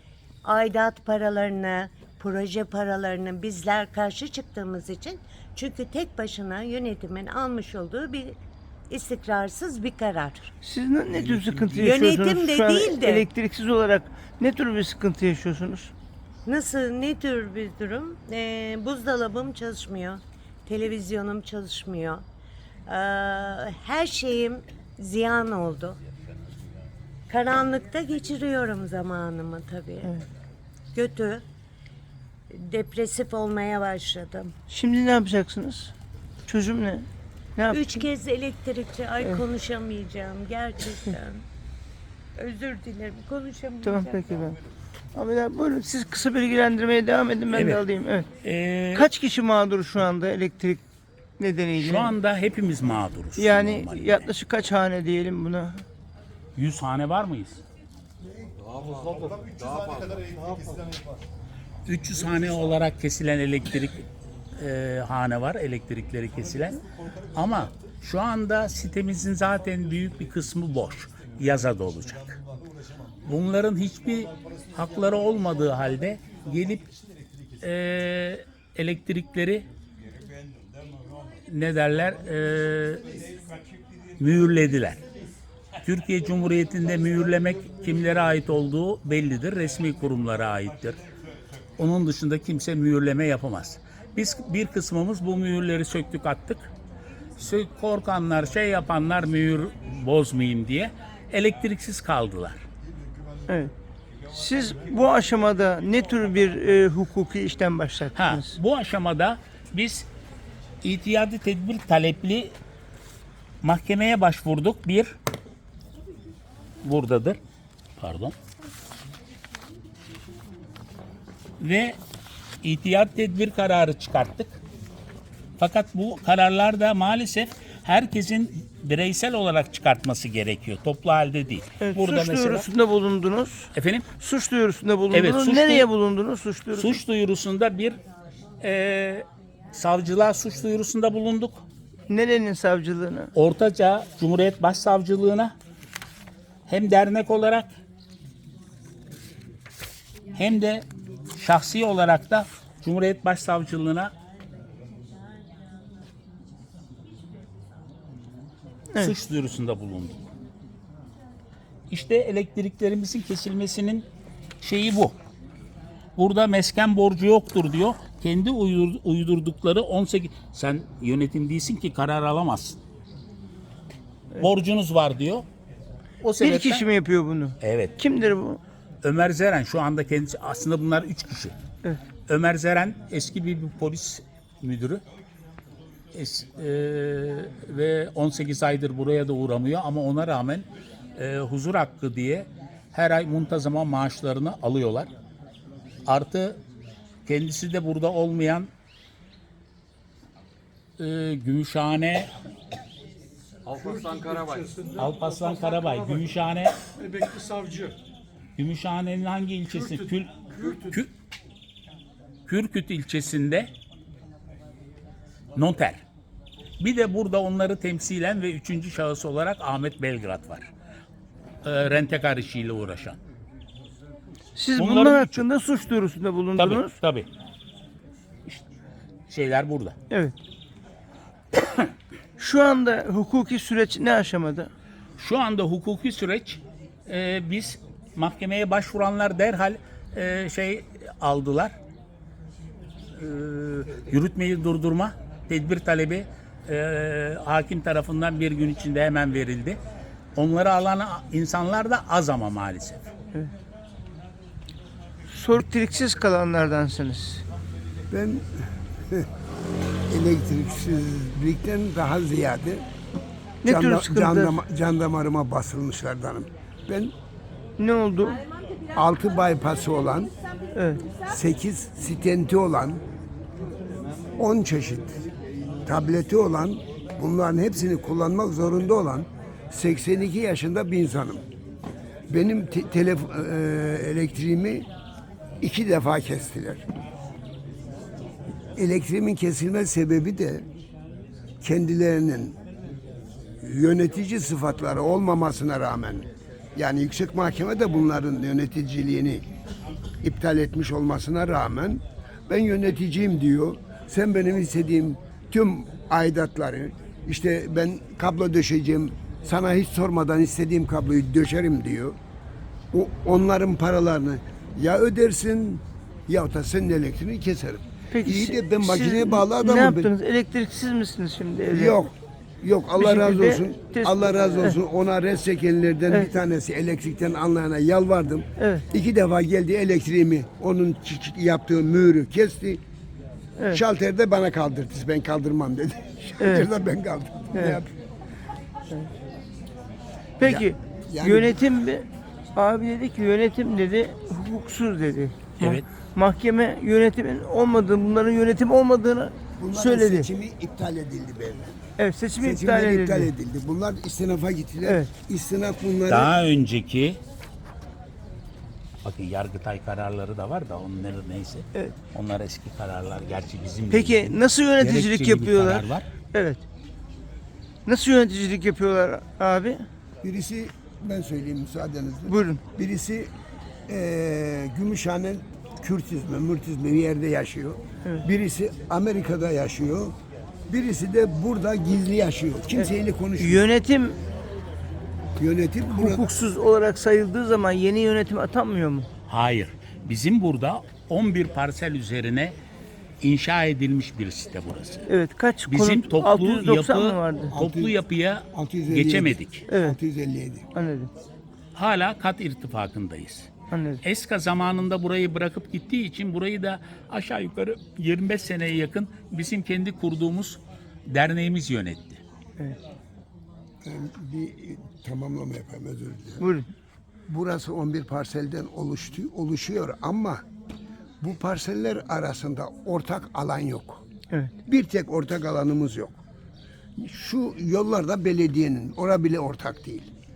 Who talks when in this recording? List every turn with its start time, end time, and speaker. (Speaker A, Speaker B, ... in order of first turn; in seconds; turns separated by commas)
Speaker A: 0.4-8.3, Speaker A: 8.9-10.5, Speaker B: 10.6-15.9, Speaker A: 11.8-13.3, Speaker A: 16.4-22.2, Speaker A: 22.9-26.0, Speaker A: 27.3-30.1, Speaker A: 30.9-31.4, Speaker A: 32.5-34.5, Speaker B: 34.7-35.9, Speaker B: 36.5-38.0, Speaker A: 37.7-41.4, Speaker A: 42.4-44.2, Speaker B: 43.8-44.6, Speaker B: 45.1-48.3, Speaker C: 47.5-47.8, Speaker C: 48.4-49.1, Speaker B: 48.9-50.8, Speaker B: 51.4-52.1, Speaker C: 51.8-54.3, Speaker B: 53.4-55.8, Speaker C: 56.5-57.6, Speaker D: 58.6-60.5, Speaker C: 61.9-64.0, Speaker C: 64.6-66.8, Speaker C: 67.3-72.4, Speaker C: 73.2-76.9, Speaker C: 77.6-79.7, Speaker C: 81.5-83.0, Speaker C: 84.2-85.0, Speaker C: 85.8-91.0, Speaker C: 91.8-96.7, Speaker C: 97.4-102.6, Speaker B: 104.3-108.5, Speaker C: 108.2-110.1, Speaker C: 110.8-112.5, Speaker C: 113.6-115.1, Speaker C: 116.8-117.4, Speaker C: 118.0-118.3, Speaker C: 121.6-122.0, Speaker C: 122.6-124.6, Speaker C: 125.6-132.7, Speaker B: 131.8-137.0, Speaker C: 133.7-134.1, Speaker C: 135.1-135.9, Speaker C: 136.7-138.0, Speaker C: 138.6-141.6, Speaker B: 142.1-143.3, Speaker C: 143.3-145.5, Speaker C: 146.7-147.7, Speaker C: 150.3-154.1, Speaker C: 159.0-160.2, Speaker C: 161.9-164.1, Speaker C: 164.6-165.1, Speaker C: 166.2-172.8, Speaker C: 174.4-175.4, Speaker C: 176.2-176.8, Speaker B: 176.4-178.6, Speaker C: 177.6-177.9, Speaker C: 179.0-181.5, Speaker C: 182.3-185.0, Speaker C: 186.1-195.1, Speaker C: 196.1-196.6, Speaker C: 197.2-198.7, Speaker C: 201.0-202.3, Speaker D: 203.7-205.0, Speaker E: 203.8-206.4, Speaker C: 205.0-206.8, Speaker E: 207.0-208.0, Speaker C: 208.6-211.1, Speaker E: 209.7-211.0, Speaker C: 212.5-213.7, Speaker C: 215.6-216.0, Speaker C: 216.8-220.7, Speaker C: 221.6-223.2, Speaker B: 224.6-226.9, Speaker C: 224.8-225.4, Speaker C: 226.6-227.3, Speaker C: 229.3-229.9, Speaker B: 232.4-234.7, Speaker C: 235.2-241.7, Speaker C: 243.1-249.8, Speaker C: 250.3-253.0, Speaker B: 255.3-257.4, Speaker F: 258.1-258.4, Speaker F: 260.1-262.8, Speaker B: 263.6-264.6, Speaker F: 263.6-267.1, Speaker B: 267.8-268.4, Speaker F: 268.9-270.3, Speaker B: 270.7-271.0, Speaker F: 271.2-273.0, Speaker F: 274.4-275.2, Speaker F: 275.9-281.4, Speaker F: 282.3-284.9, Speaker F: 285.6-286.8, Speaker F: 288.8-290.6, Speaker F: 291.6-292.6, Speaker F: 293.6-299.4, Speaker F: 300.2-312.2, Speaker F: 312.9-320.1, Speaker B: 318.1-321.9, Speaker F: 321.7-332.8, Speaker B: 323.0-324.8, Speaker B: 328.6-328.8, Speaker F: 333.7-337.9, Speaker B: 336.4-336.7, Speaker B: 337.5-337.8, Speaker B: 340.4-350.3, Speaker F: 340.4-341.6, Speaker C: 345.6-345.8, Speaker F: 349.6-351.8, Speaker B: 352.0-353.3, Speaker F: 352.4-356.3, Speaker C: 356.1-357.2, Speaker C: 359.0-366.1, Speaker B: 363.9-366.6, Speaker B: 367.9-369.8, Speaker F: 370.2-373.3, Speaker B: 372.3-372.6, Speaker F: 373.9-380.1, Speaker F: 380.7-383.6, Speaker B: 383.4-384.2, Speaker F: 385.4-386.3, Speaker B: 385.9-389.1, Speaker C: 389.3-392.5, Speaker C: 393.2-395.1, Speaker B: 395.1-397.5, Speaker C: 395.6-399.6, Speaker F: 397.5-398.0, Speaker F: 398.5-400.6, Speaker B: 399.7-400.0, Speaker B: 400.7-401.1, Speaker C: 401.7-403.5, Speaker B: 403.7-404.0, Speaker C: 404.0-412.2, Speaker F: 413.8-416.4, Speaker B: 416.4-416.6, Speaker F: 417.3-420.4, Speaker F: 421.2-424.0, Speaker F: 424.6-426.2, Speaker F: 427.0-430.1